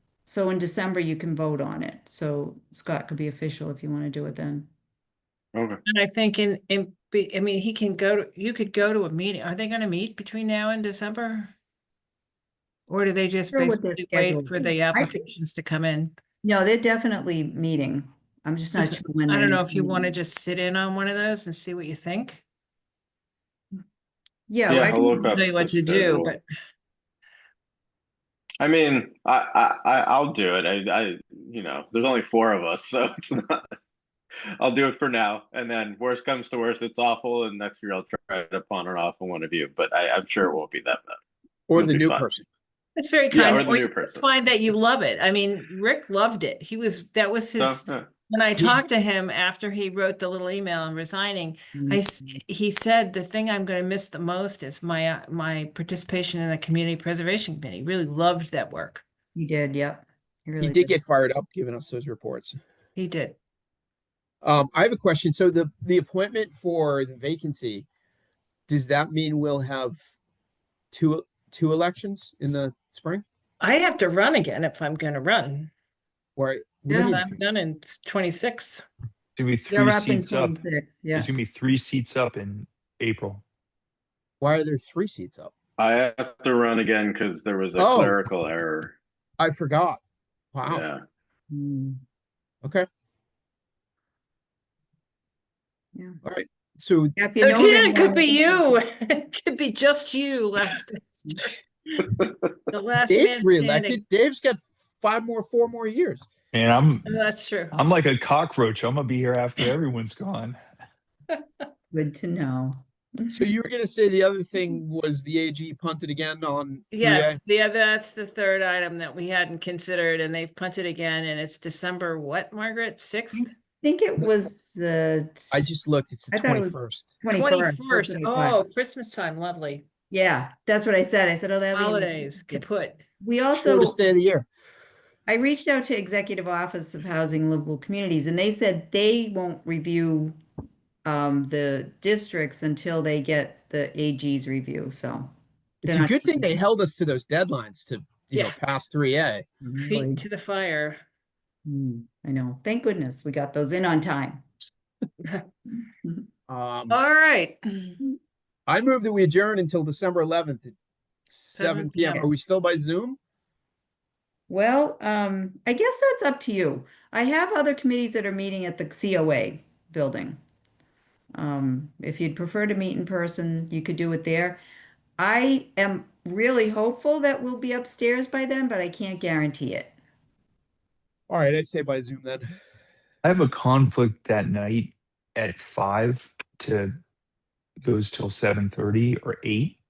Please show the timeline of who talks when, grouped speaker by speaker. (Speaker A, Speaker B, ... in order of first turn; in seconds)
Speaker A: 0.2-4.7, 13.5-15.3, 16.4-20.2, 24.5-25.3, 51.7-52.4, 59.3-61.0, 76.9-77.2, 79.7-81.3, 91.5-92.0, 97.2-98.8, 111.9-113.5, 123.3-125.7, 126.3-128.6, 130.1-132.7, 133.2-134.0, 135.3-140.4, 141.1-145.3, 145.8-146.5, 149.6-150.2, 151.7-154.5, 164.5-170.4, 171.3-174.6, 175.2-179.9
Speaker B: 5.5-5.8, 24.7-26.3, 28.6-33.6, 34.6-41.2, 41.7-42.3, 43.3-44.2, 47.6-48.1, 85.8-88.9, 90.7-91.0
Speaker C: 5.8-11.5, 12.9-16.1, 18.7-22.4, 25.1-26.4, 43.0-59.0, 63.0-63.4, 73.6-75.7, 76.9-78.8, 97.4-101.6, 102.7-104.0, 107.0-107.8, 116.9-123.5, 127.3-129.8, 131.7-133.0, 149.8-151.0, 156.9-158.0, 161.5-162.2
Speaker D: 41.7-42.4, 60.6-62.6, 64.4-67.8, 68.7-70.0, 70.9-73.2, 76.3-77.4, 84.4-85.5, 87.8-88.2, 89.4-90.0, 90.5-90.8, 96.2-97.1, 103.1-106.3, 113.3-117.4, 125.5-127.1, 133.6-134.5, 145.8-149.5, 156.5-157.0, 158.7-160.7, 161.3-163.2, 181.3-182.5
Speaker E: 79.3-80.6, 81.1-83.4, 106.5-107.2, 107.7-110.6, 183.2-186.9, 187.8-189.8